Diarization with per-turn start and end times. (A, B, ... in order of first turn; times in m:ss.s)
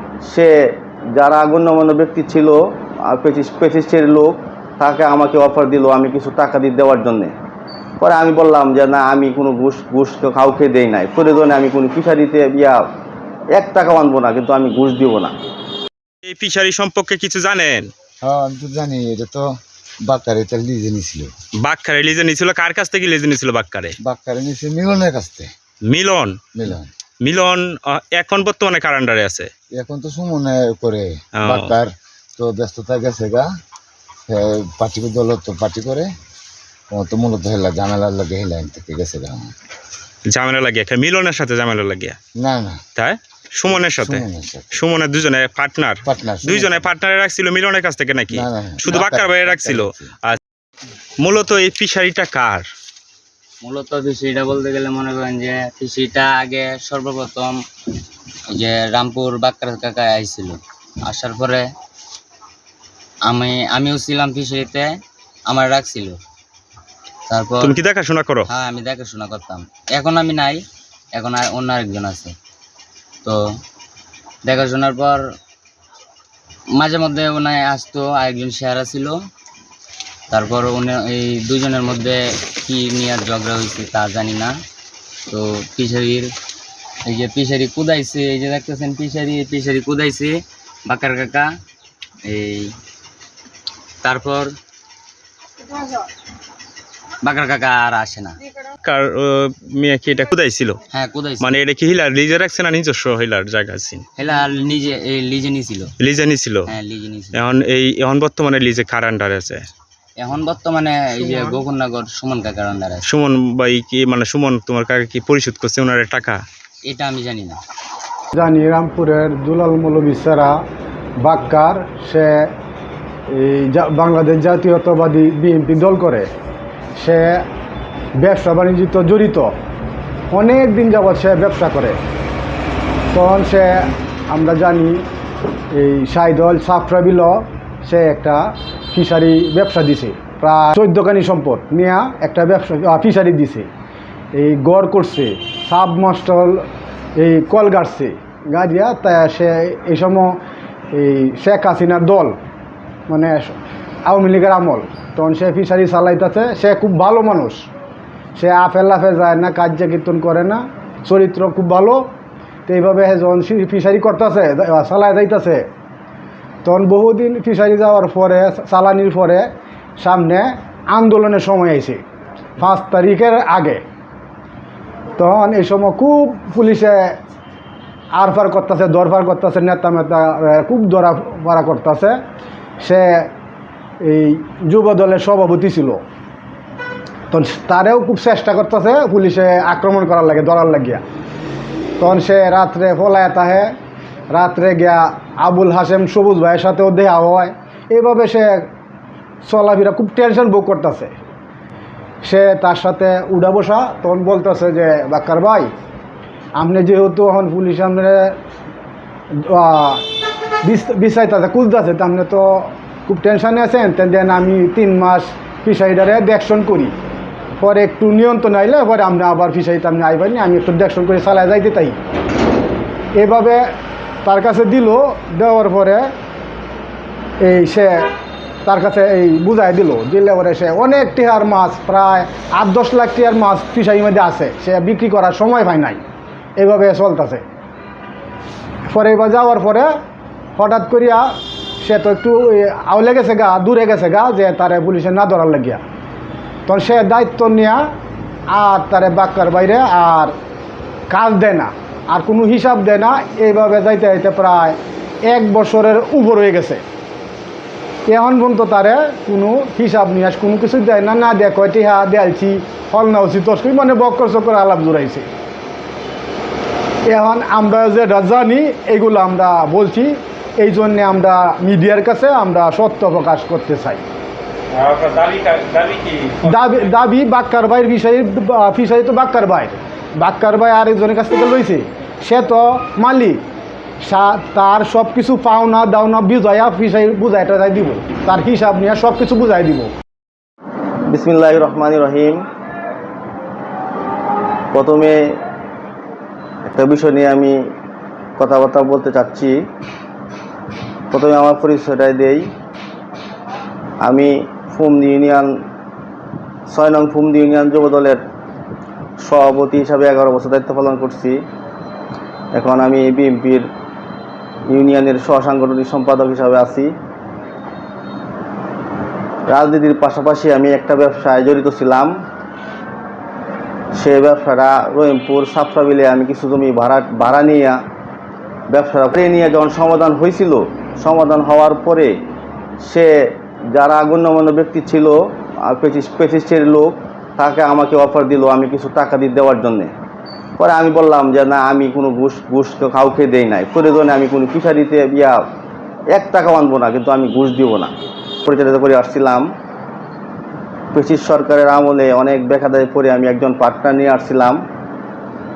0:00.3-0:00.5 A
0:01.1-0:07.3 A
0:08.0-0:12.8 A
0:13.5-0:15.3 A
0:16.2-0:17.9 B
0:18.2-0:19.5 C
0:20.0-0:21.3 C
0:21.6-0:23.9 B
0:24.0-0:25.5 C
0:25.8-0:26.4 B
0:26.5-0:26.9 C
0:27.2-0:29.5 B
0:29.7-0:33.5 C
0:31.4-0:31.8 B
0:34.3-0:36.1 C
0:36.9-0:39.5 C
0:40.3-0:42.2 B
0:42.4-0:42.8 C
0:43.0-0:50.4 B
0:43.7-0:44.8 C
0:46.0-0:46.9 C
0:48.3-0:50.1 C
0:51.2-0:52.7 B
0:53.6-0:57.6 D
0:58.5-1:01.6 D
1:03.2-1:04.9 D
1:05.5-1:06.2 D
1:07.3-1:07.8 D
1:07.6-1:08.5 B
1:08.5-1:10.6 D
1:11.1-1:12.3 D
1:14.4-1:15.2 D
1:16.7-1:19.2 D
1:20.3-1:24.5 D
1:25.3-1:26.3 D
1:27.0-1:31.5 D
1:32.2-1:32.7 D
1:34.0-1:34.5 D
1:37.2-1:38.4 D
1:38.8-1:40.8 B
1:40.9-1:41.5 D
1:41.4-1:44.0 B
1:44.2-1:45.9 D
1:46.0-1:46.7 B
1:46.7-1:47.4 D
1:47.3-1:49.7 B
1:50.2-1:53.0 D
1:51.2-1:51.6 B
1:53.0-1:56.4 B
1:56.8-1:57.6 D
1:58.3-2:00.6 E
2:01.2-2:02.5 E
2:03.3-2:06.3 E
2:07.0-2:07.4 E
2:08.2-2:09.5 E
2:10.3-2:12.0 E
2:13.1-2:15.0 E
2:15.7-2:23.7 E
2:24.3-2:26.6 E
2:27.2-2:30.4 E
2:30.9-2:32.4 E
2:33.1-2:37.7 E
2:38.4-2:42.0 E
2:42.7-2:45.6 E
2:46.6-2:49.4 E
2:50.0-2:52.0 E
2:52.6-2:53.8 E
2:55.2-2:57.2 E
2:58.1-3:02.2 E
3:02.8-3:03.3 E
3:04.0-3:06.0 E
3:07.3-3:11.0 E
3:12.0-3:13.7 E
3:14.3-3:18.7 E
3:19.4-3:21.1 E
3:22.2-3:25.7 E
3:26.6-3:28.3 E
3:29.3-3:30.0 E
3:30.6-3:36.9 E
3:37.6-3:42.0 E
3:43.2-3:43.6 E
3:44.2-3:46.1 E
3:47.4-3:48.1 E
3:48.6-3:56.0 E
3:56.6-3:57.4 E
3:58.9-3:59.9 E
4:00.6-4:05.8 E
4:06.6-4:07.8 E
4:08.5-4:10.3 E
4:11.1-4:16.8 E
4:18.1-4:25.3 E
4:27.1-4:34.0 E
4:34.7-4:36.8 B
4:36.4-4:43.4 E
4:44.0-4:49.9 E
4:51.1-4:52.4 A
4:54.7-4:55.4 A
4:56.7-4:57.6 A
4:58.4-4:59.5 A
5:01.1-5:02.5 A
5:04.0-5:05.5 A
5:06.7-5:08.2 A
5:09.2-5:11.4 A
5:12.5-5:13.7 A
5:14.7-5:16.9 A
5:19.5-5:22.1 A
5:23.9-5:27.8 A
5:28.7-5:32.2 A
5:32.8-5:33.1 A
5:33.7-5:39.9 A
5:40.6-5:45.4 A
5:46.1-5:47.9 A
5:48.4-5:49.4 A
5:50.9-5:54.6 A